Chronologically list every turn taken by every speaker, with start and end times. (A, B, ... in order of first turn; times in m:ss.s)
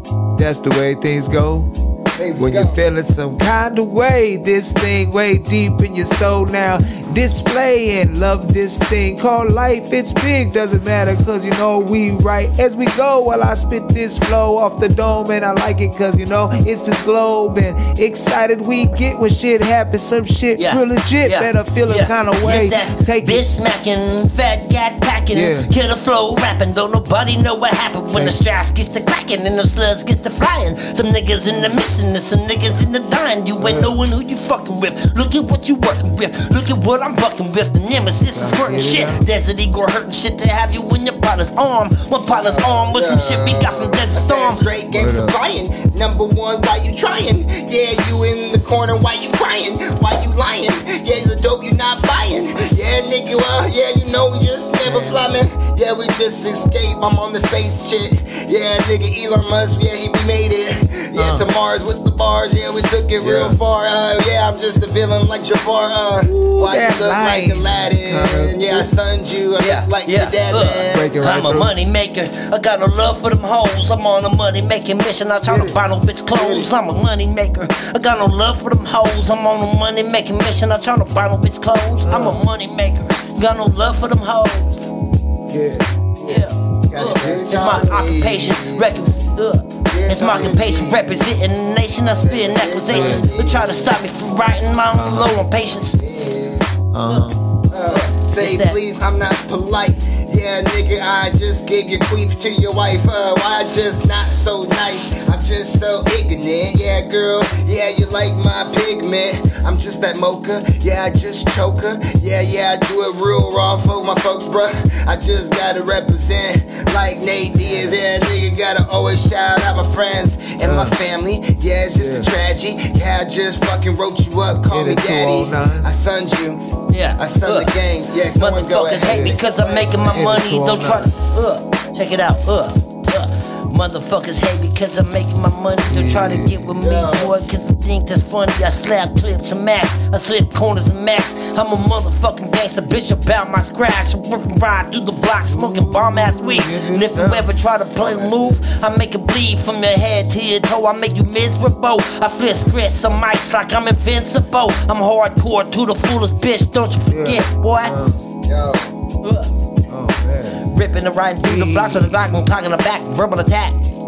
0:00.4-0:01.7 A
0:02.2-0:02.8 B
0:02.4-0:23.4 A
0:20.6-0:44.6 C
0:25.3-0:25.7 A
0:28.1-0:28.4 A
0:31.4-0:31.8 A
0:33.6-0:34.0 A
0:38.3-0:39.2 A
0:42.3-1:11.1 B
0:44.9-0:45.3 A
0:54.8-0:55.3 A
1:01.1-1:01.5 A
1:03.2-1:03.6 A
1:06.2-1:08.9 A
1:09.6-1:24.9 C
1:10.9-1:11.7 A
1:15.4-1:15.8 A
1:16.3-1:16.7 A
1:22.0-1:22.4 A
1:25.5-1:26.5 A
1:26.3-1:36.0 C
1:26.9-1:29.0 B
1:27.0-1:28.0 A
1:29.9-1:31.3 B
1:32.2-1:33.9 B
1:32.9-1:33.3 A
1:34.9-1:35.4 A
1:36.0-1:36.8 B
1:36.9-1:37.4 A
1:37.7-2:06.6 B
1:37.8-1:38.8 C
1:57.6-1:58.0 A
2:00.6-2:01.0 A
2:02.0-2:02.3 A
2:04.7-2:05.9 A
2:06.9-2:07.7 C
2:07.2-2:10.2 B
2:08.3-2:37.9 C
2:09.0-2:09.4 A
2:10.0-2:11.1 A
2:15.9-2:16.7 A
2:16.8-2:17.3 B
2:25.5-2:27.5 A
2:28.0-2:28.6 B
2:37.1-2:38.2 A
2:38.4-2:39.0 B
2:39.2-2:39.5 C
2:39.9-2:40.6 A
2:40.7-2:43.8 C
2:41.4-2:42.4 A